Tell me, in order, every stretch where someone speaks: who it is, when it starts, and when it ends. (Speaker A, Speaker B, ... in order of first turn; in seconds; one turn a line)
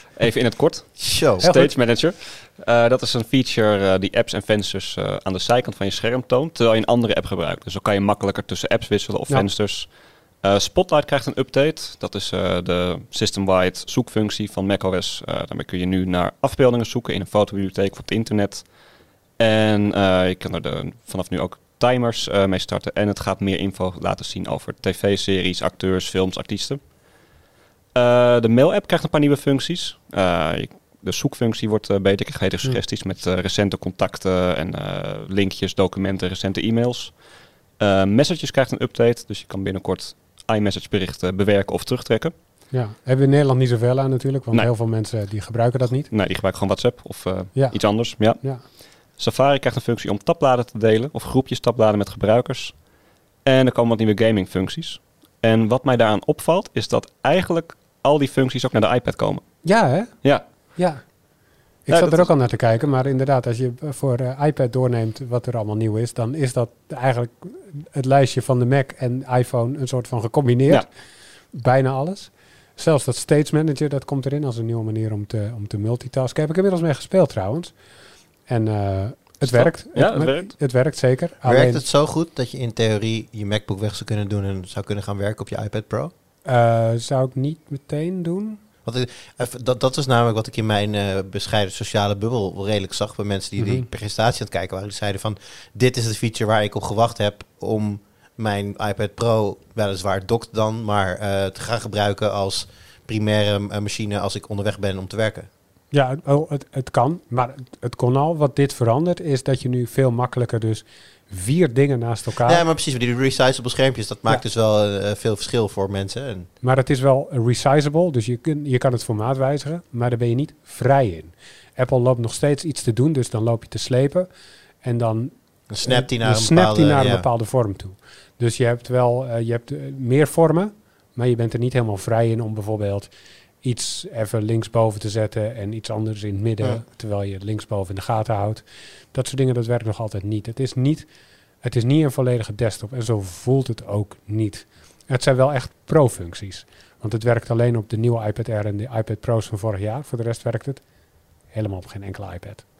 Speaker A: 0.2-18.7
Speaker B: 1.0-1.5
Speaker C: 1.4-1.7
Speaker A: 19.4-26.9
Speaker A: 27.9-37.2
Speaker A: 37.8-42.3
Speaker C: 42.7-46.1
Speaker A: 46.1-52.8
Speaker C: 47.5-48.6
Speaker A: 53.4-59.6
Speaker C: 59.6-61.1
Speaker C: 61.8-70.9
Speaker A: 61.9-62.3
Speaker C: 71.5-77.7
Speaker C: 78.5-81.8
Speaker A: 79.4-80.5
Speaker B: 81.5-86.1
Speaker C: 86.5-88.6
Speaker B: 88.8-105.5
Speaker C: 93.6-93.8
Speaker C: 105.9-112.6
Speaker B: 112.4-116.5
Speaker C: 116.6-124.3
Speaker C: 124.8-133.1
Speaker B: 125.7-127.2
Speaker C: 133.6-141.1
Speaker C: 141.6-150.8
Speaker C: 151.5-152.7